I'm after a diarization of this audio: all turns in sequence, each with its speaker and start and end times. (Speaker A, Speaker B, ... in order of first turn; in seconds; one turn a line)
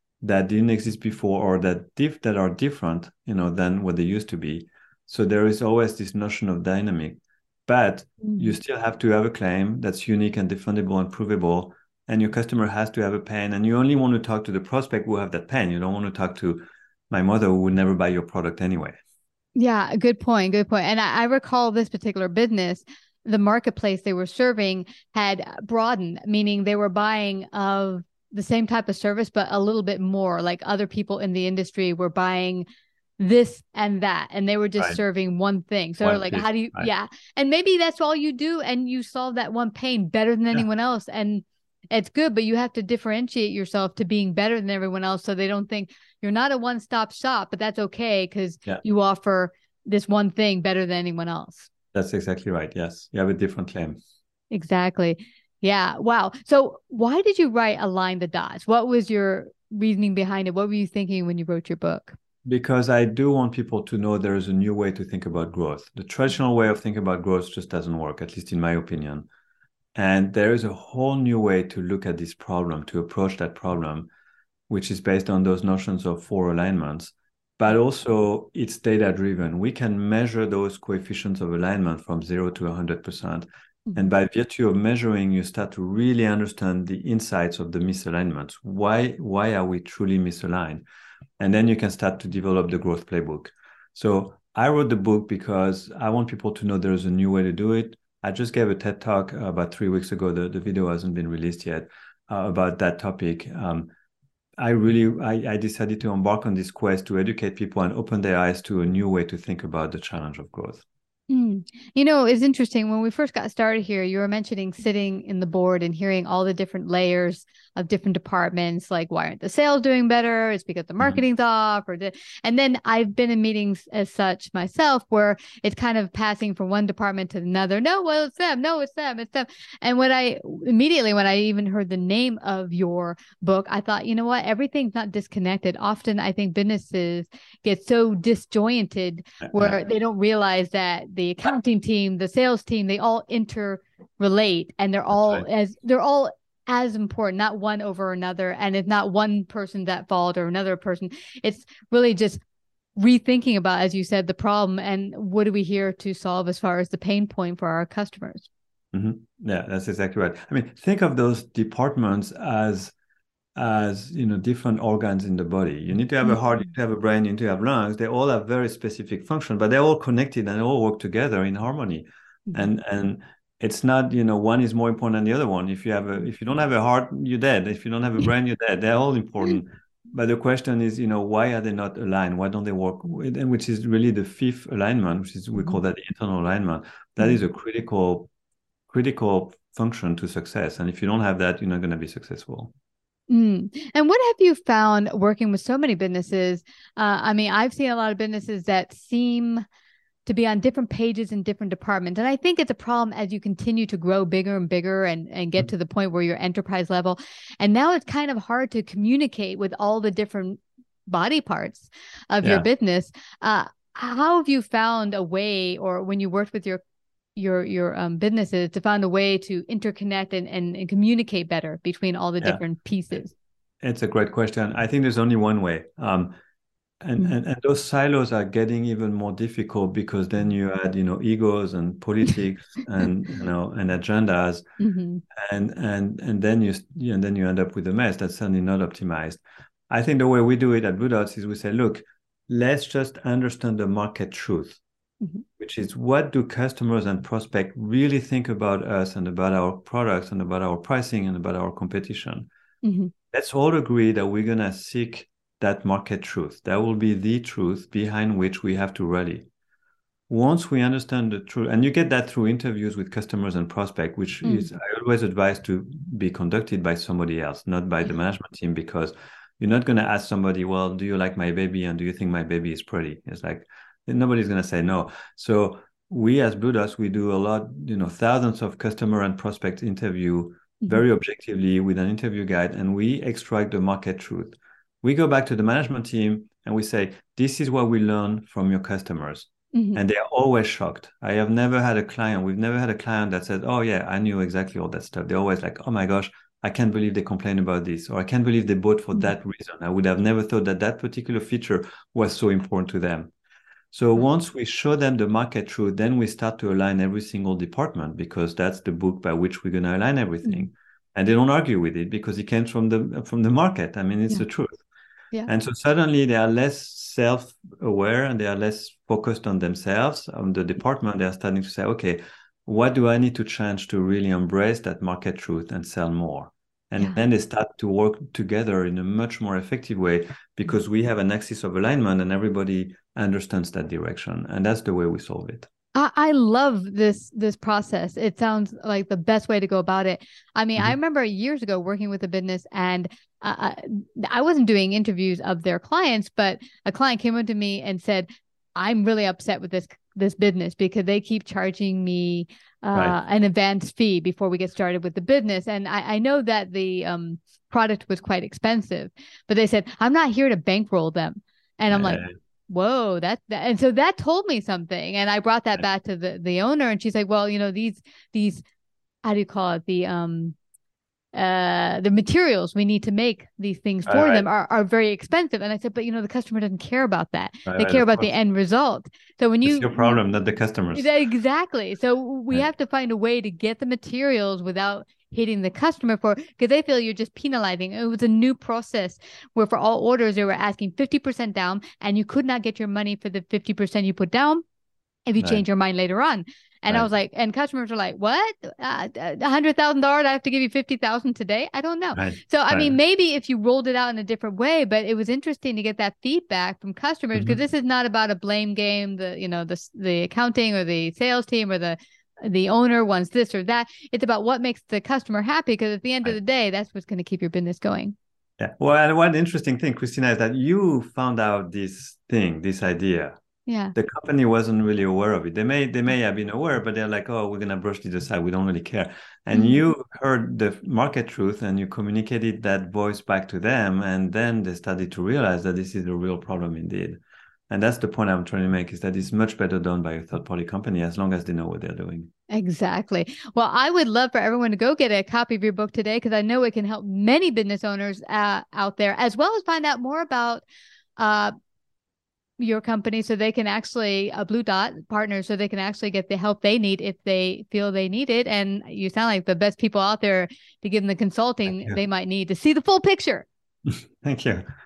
Speaker A: 0.2-19.0
Speaker B: 8.2-8.5
Speaker B: 19.6-32.7
Speaker B: 33.2-51.7
Speaker A: 36.0-36.9
Speaker A: 51.9-54.0
Speaker B: 54.5-62.2
Speaker A: 62.5-69.3
Speaker A: 70.0-74.1
Speaker A: 74.7-90.8
Speaker A: 91.4-103.9
Speaker A: 104.6-110.8
Speaker B: 111.3-152.4
Speaker A: 145.2-145.4
Speaker B: 153.0-158.5
Speaker A: 158.9-162.9
Speaker A: 163.6-188.3
Speaker A: 188.9-192.7
Speaker B: 193.3-199.7
Speaker B: 200.3-216.8
Speaker B: 217.4-223.3
Speaker A: 223.8-226.4
Speaker A: 227.0-234.7
Speaker B: 234.8-235.2
Speaker A: 235.4-244.8
Speaker A: 245.6-252.5
Speaker B: 252.8-253.1
Speaker A: 253.3-259.5
Speaker A: 260.3-303.3
Speaker B: 289.7-290.0
Speaker A: 303.9-314.8
Speaker A: 315.5-335.7
Speaker B: 335.9-368.6
Speaker A: 361.9-362.3
Speaker B: 369.2-370.6
Speaker B: 371.3-380.2
Speaker A: 374.1-374.5
Speaker A: 377.7-378.3
Speaker A: 379.6-381.1
Speaker B: 380.9-394.6
Speaker B: 395.3-418.1
Speaker A: 402.1-403.0
Speaker A: 418.6-423.4
Speaker B: 423.7-423.9
Speaker A: 423.9-442.3
Speaker B: 442.5-450.7
Speaker B: 451.2-451.5
Speaker B: 452.6-463.5
Speaker A: 463.9-464.7